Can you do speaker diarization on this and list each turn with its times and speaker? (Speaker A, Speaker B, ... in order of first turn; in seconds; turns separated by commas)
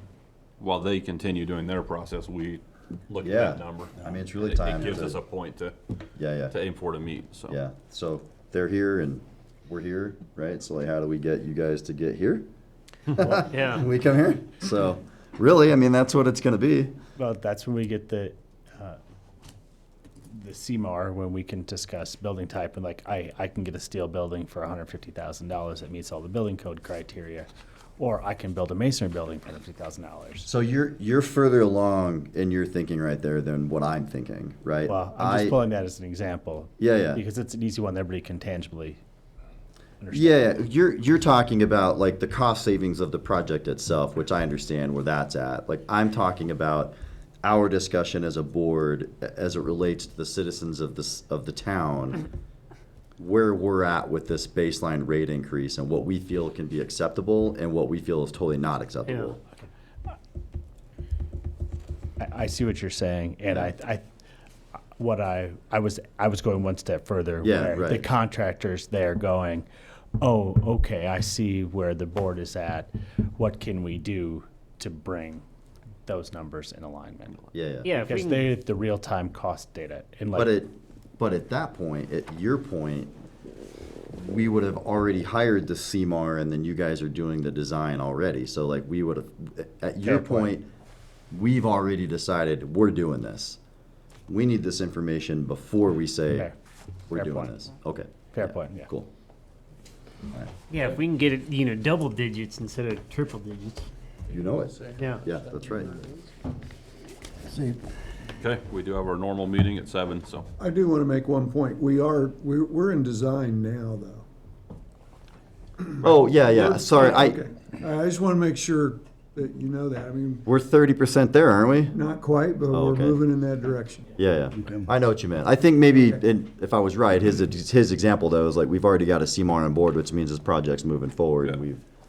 Speaker A: 0.6-5.7, Speaker B: 3.2-5.2, Speaker B: 6.2-6.5, Speaker A: 6.5-7.6, Speaker B: 7.5-12.5, Speaker B: 13.1-16.9, Speaker C: 13.5-13.8, Speaker D: 17.2-19.0, Speaker D: 20.3-30.5, Speaker B: 30.4-35.6, Speaker D: 34.9-39.0, Speaker B: 36.8-37.2, Speaker D: 40.0-40.5, Speaker B: 40.1-52.2, Speaker B: 53.2-59.4, Speaker D: 62.2-64.0, Speaker B: 63.5-63.7, Speaker D: 65.0-69.7, Speaker B: 67.4-68.1, Speaker D: 70.2-75.4, Speaker D: 76.0-80.6, Speaker B: 77.5-77.9, Speaker C: 77.8-78.5, Speaker B: 80.3-83.1, Speaker B: 84.1-90.7, Speaker D: 90.0-90.5, Speaker B: 91.3-93.6, Speaker B: 94.3-96.5, Speaker B: 97.1-99.1, Speaker D: 97.1-97.5, Speaker D: 98.3-98.9, Speaker C: 100.7-103.8, Speaker B: 104.3-106.0, Speaker C: 105.0-105.3, Speaker A: 108.4-110.5, Speaker E: 110.6-114.2, Speaker B: 116.0-117.4, Speaker E: 116.5-120.4, Speaker B: 120.5-121.9, Speaker E: 121.9-124.1, Speaker B: 122.7-123.2, Speaker B: 124.2-131.8